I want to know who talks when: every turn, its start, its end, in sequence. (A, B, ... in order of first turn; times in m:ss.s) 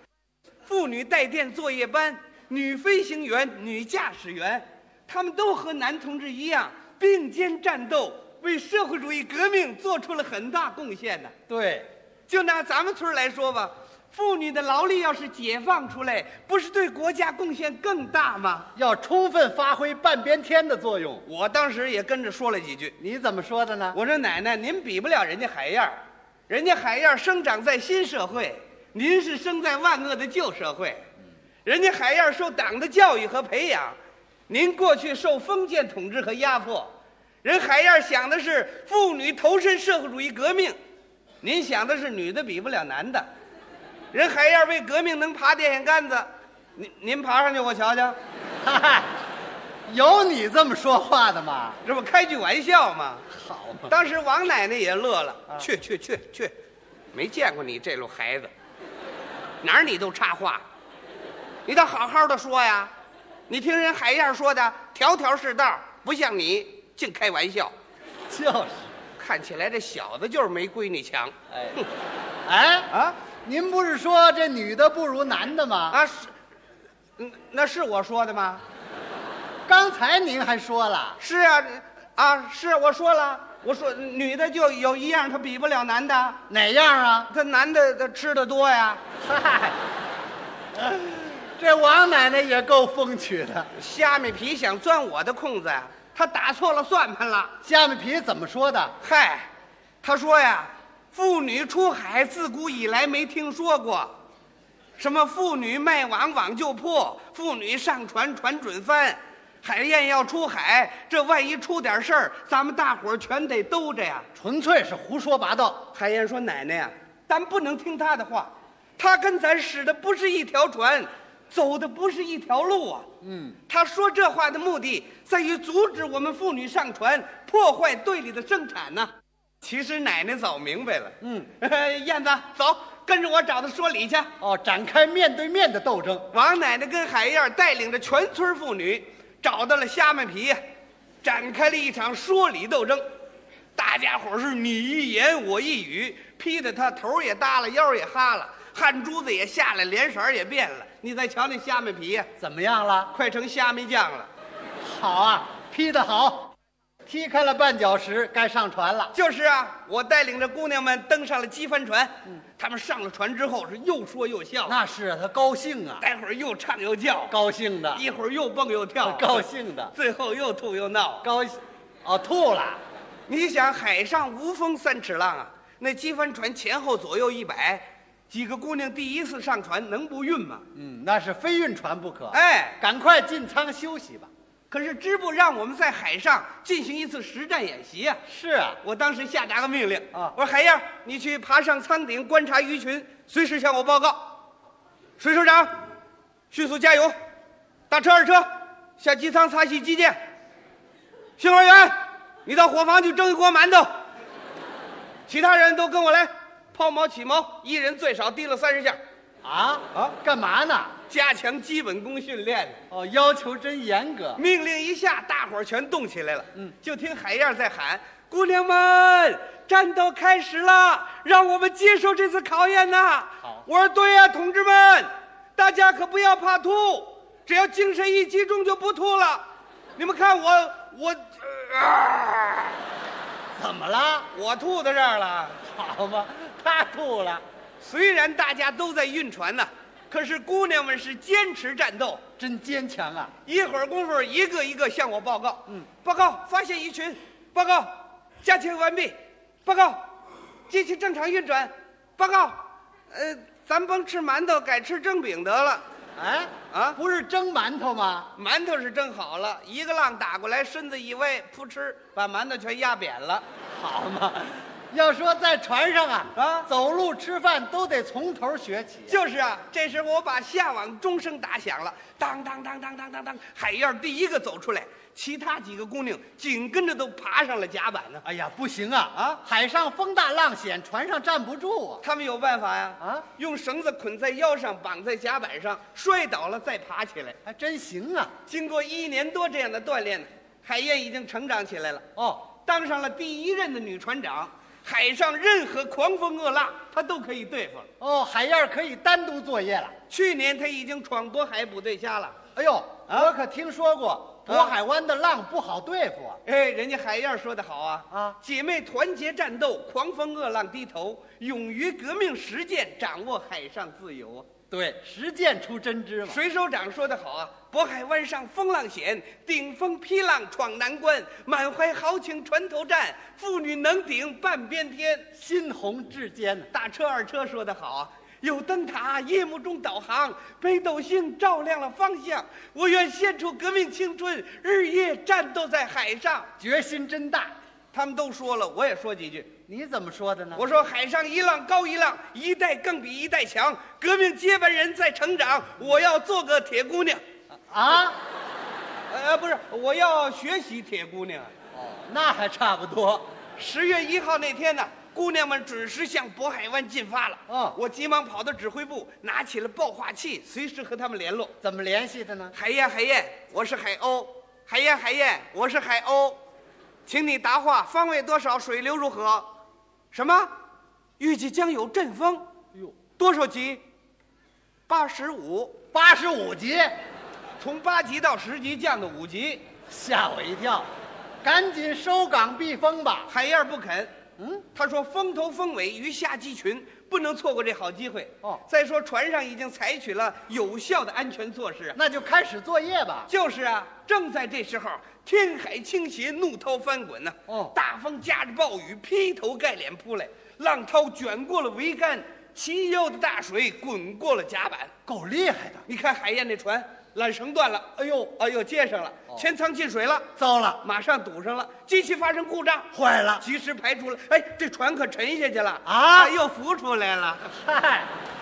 0:00.7-0:11.3 A
0:11.5-0:11.9 B
0:12.3-0:18.7 A
0:18.8-0:21.2 B
0:21.2-0:23.0 A
0:23.0-0:24.0 B
0:23.9-0:26.0 A
0:26.5-0:31.0 A
0:31.6-0:34.0 A
0:34.5-0:40.8 A
0:41.4-0:43.3 A
0:44.1-0:48.2 A
0:48.6-0:49.1 B
0:49.9-0:51.8 B
0:51.8-0:53.2 A
0:53.3-0:53.9 B
0:53.9-0:56.5 A
0:57.1-0:58.5 A
0:59.6-1:00.6 A
1:01.6-1:02.9 A
1:03.5-1:07.7 A
1:08.3-1:08.9 B
1:09.2-1:11.8 A
1:11.5-1:11.8 B
1:12.4-1:12.9 B
1:12.9-1:13.2 A
1:13.4-1:16.0 B
1:15.9-1:16.3 A
1:17.2-1:18.6 A
1:19.7-1:21.2 B
1:21.2-1:26.4 A
1:26.5-1:27.3 B
1:27.3-1:29.0 A
1:29.2-1:29.8 B
1:30.8-1:33.7 B
1:33.8-1:37.5 A
1:37.6-1:39.0 B
1:39.0-1:39.5 A
1:40.0-1:44.1 A
1:45.0-1:54.3 A
1:54.4-1:55.9 B
1:55.9-2:03.1 A
2:03.2-2:03.6 B
2:03.7-2:14.3 A
2:11.2-2:11.5 B
2:14.4-2:16.3 B
2:16.3-2:20.6 A
2:21.2-2:23.0 A
2:23.8-2:32.3 A
2:32.4-2:33.1 B
2:33.1-2:34.3 A
2:34.8-2:36.5 B
2:37.0-2:39.1 B
2:39.1-2:44.8 A
2:44.6-2:46.0 B
2:46.0-2:47.4 A
2:47.3-2:48.0 B
2:47.9-2:51.3 A
2:49.0-2:49.9 B
2:51.2-2:52.8 B
2:53.3-3:00.6 A
3:00.8-3:04.3 B
3:02.3-3:02.8 A
3:04.7-3:08.2 A
3:08.3-3:08.8 B
3:08.8-3:14.4 A
3:15.2-3:15.8 A
3:16.5-3:17.1 A
3:17.9-3:20.2 A
3:21.4-3:23.9 A
3:25.3-3:29.0 A
3:29.4-3:30.9 B
3:31.1-3:32.8 A
3:32.9-3:34.4 B
3:34.4-3:49.4 A
3:50.0-3:52.8 A
3:53.6-3:54.3 B
3:54.3-3:55.6 A
3:55.6-3:57.4 B
3:57.8-4:02.2 A
4:02.4-4:03.3 B
4:03.4-4:10.0 A
4:10.7-4:15.8 A
4:16.2-4:18.3 B
4:16.7-4:17.0 A
4:18.4-4:23.4 A
4:23.7-4:29.2 B
4:26.3-4:26.7 A
4:29.1-4:38.2 A
4:38.2-4:42.0 B
4:39.1-4:39.4 A
4:42.0-4:47.4 A
4:43.0-4:43.2 B
4:47.4-4:48.3 B
4:48.5-4:52.0 A
4:52.2-4:52.4 B
4:52.6-4:57.9 A
4:58.0-4:59.9 B
5:00.1-5:02.4 A
5:02.5-5:06.4 B
5:04.4-5:04.8 A
5:06.4-5:14.4 A
5:08.1-5:08.4 B
5:14.7-5:16.4 B
5:16.2-5:25.2 A
5:25.4-5:26.7 B
5:26.7-5:36.5 A
5:36.6-5:37.5 B
5:37.9-5:39.5 A
5:39.7-5:40.7 B
5:40.5-5:47.2 A
5:47.7-5:48.2 B
5:49.1-5:51.5 A
5:51.7-5:53.2 B
5:53.6-6:01.5 A
5:57.5-5:57.8 B
6:01.6-6:02.5 B
6:02.5-6:06.4 A
6:07.1-6:09.5 A
6:10.1-6:10.5 A
6:11.2-6:12.5 A
6:13.2-6:13.8 A
6:14.9-6:15.8 A
6:15.9-6:16.9 B
6:17.6-6:19.6 A
6:19.9-6:20.9 B
6:21.4-6:23.3 B
6:23.3-6:24.1 A
6:24.4-6:24.6 B
6:24.7-6:32.0 A
6:32.0-6:33.3 B
6:33.3-6:44.9 A
6:37.5-6:37.8 B
6:45.1-6:45.8 B
6:45.9-6:50.3 A
6:48.0-6:48.3 B
6:50.4-6:50.8 B
6:50.8-6:57.5 A
6:52.9-6:53.4 B
6:55.8-6:56.3 B
6:57.5-6:58.1 B